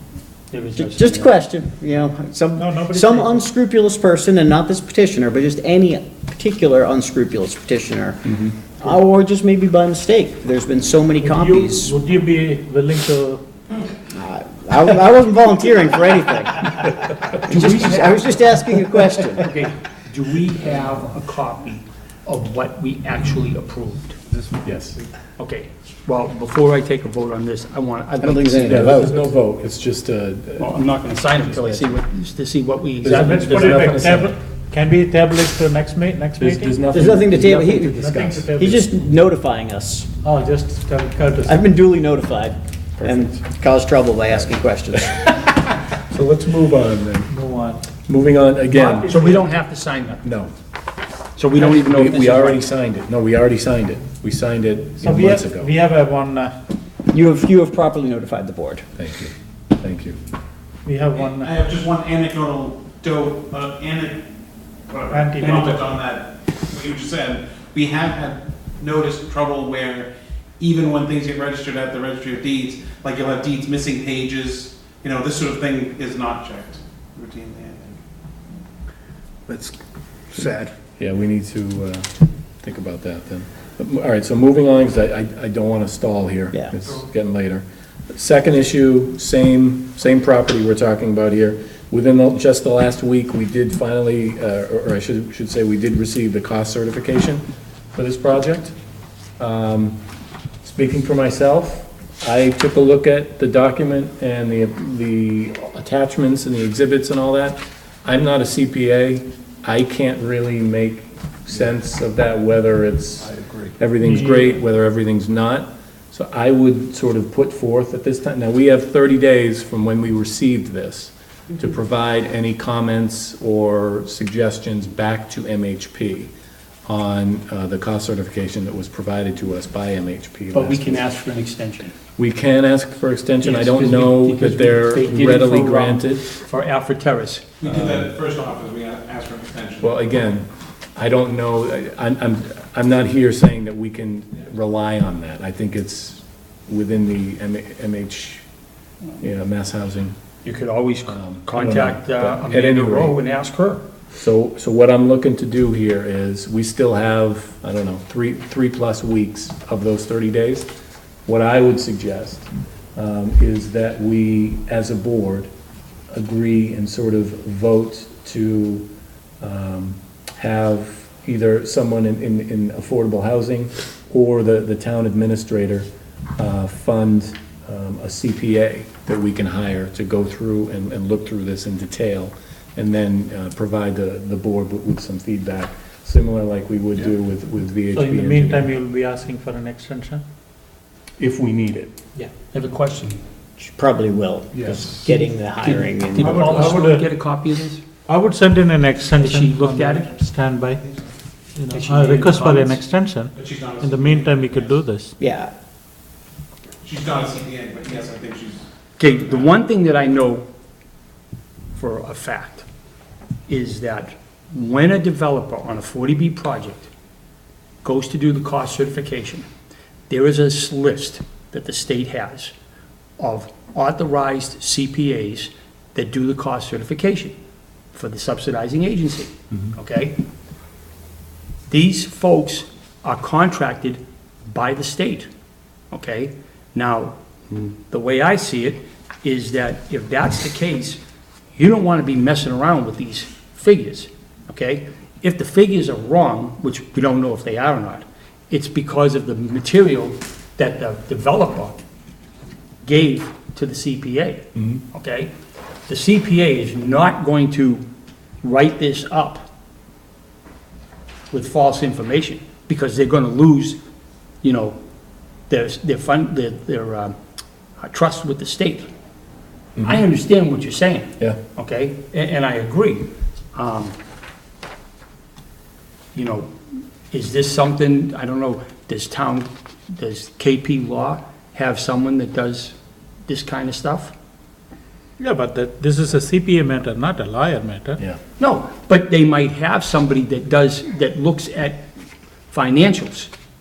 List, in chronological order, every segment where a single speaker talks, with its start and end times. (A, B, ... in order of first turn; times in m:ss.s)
0:00.5-0:01.3 A
0:00.8-0:11.9 B
0:02.6-0:03.3 C
0:11.2-0:13.4 C
0:14.1-0:19.5 B
0:17.3-0:18.6 A
0:19.3-0:24.2 A
0:24.6-0:25.0 D
0:25.4-0:29.1 A
0:28.2-0:29.3 B
0:28.6-0:30.7 D
0:30.6-0:34.0 A
0:31.4-0:31.9 D
0:33.0-0:34.3 D
0:33.2-0:36.8 C
0:36.4-0:38.5 D
0:36.9-0:40.1 B
0:37.9-0:38.8 C
0:40.2-0:41.6 C
0:41.4-0:45.3 B
0:45.4-0:47.3 D
0:47.3-0:47.9 C
0:48.1-0:49.2 D
0:48.7-0:49.4 C
0:49.1-0:50.2 A
0:50.2-0:50.5 D
0:51.4-0:52.6 A
0:51.5-0:55.7 D
0:55.0-0:56.6 C
0:57.1-0:58.8 B
0:59.0-1:00.2 D
1:00.8-1:01.5 C
1:01.1-1:04.2 E
1:04.9-1:18.0 E
1:05.1-1:05.8 C
1:19.5-1:19.7 E
1:20.4-1:20.7 E
1:21.0-1:37.4 D
1:37.9-1:38.7 D
1:39.4-1:40.0 D
1:40.6-2:06.3 D
1:54.0-1:54.5 C
2:06.9-2:11.1 D
2:10.5-2:11.9 A
2:12.2-2:16.3 D
2:13.4-2:17.9 A
2:17.6-2:20.0 E
2:19.8-2:28.4 D
2:29.2-2:30.2 D
2:30.4-2:33.8 A
2:31.0-2:33.2 D
2:34.1-2:40.7 D
2:41.2-2:45.5 D
2:46.1-2:48.8 D
2:49.4-3:08.7 D
3:07.9-3:10.2 C
3:11.2-3:11.9 D
3:12.2-3:13.2 A
3:13.6-3:16.7 B
3:14.5-3:15.0 D
3:15.0-3:17.8 A
3:16.2-3:17.0 C
3:18.1-3:20.8 C
3:19.2-3:20.1 A
3:20.8-3:21.1 E
3:21.6-3:25.1 C
3:21.7-3:22.8 A
3:23.3-3:24.8 E
3:25.2-3:25.5 B
3:26.8-3:29.5 E
3:29.0-3:30.4 A
3:31.7-3:32.6 A
3:33.5-3:36.9 A
3:37.8-3:39.5 A
3:40.1-3:42.5 A
3:43.2-3:47.3 A
3:47.9-3:50.2 A
3:51.7-3:55.3 A
3:55.9-4:01.0 A
4:01.5-4:11.8 A
4:12.8-4:15.3 A
4:14.5-4:14.8 D
4:15.9-4:17.8 A
4:18.4-4:19.4 A
4:21.3-4:23.8 A
4:24.4-4:24.8 A
4:25.5-4:27.2 A
4:27.8-4:28.9 A
4:29.8-4:30.0 D
4:29.8-4:34.0 A
4:36.1-4:44.1 A
4:45.2-4:48.0 C
4:48.4-4:51.9 A
4:52.5-4:53.3 A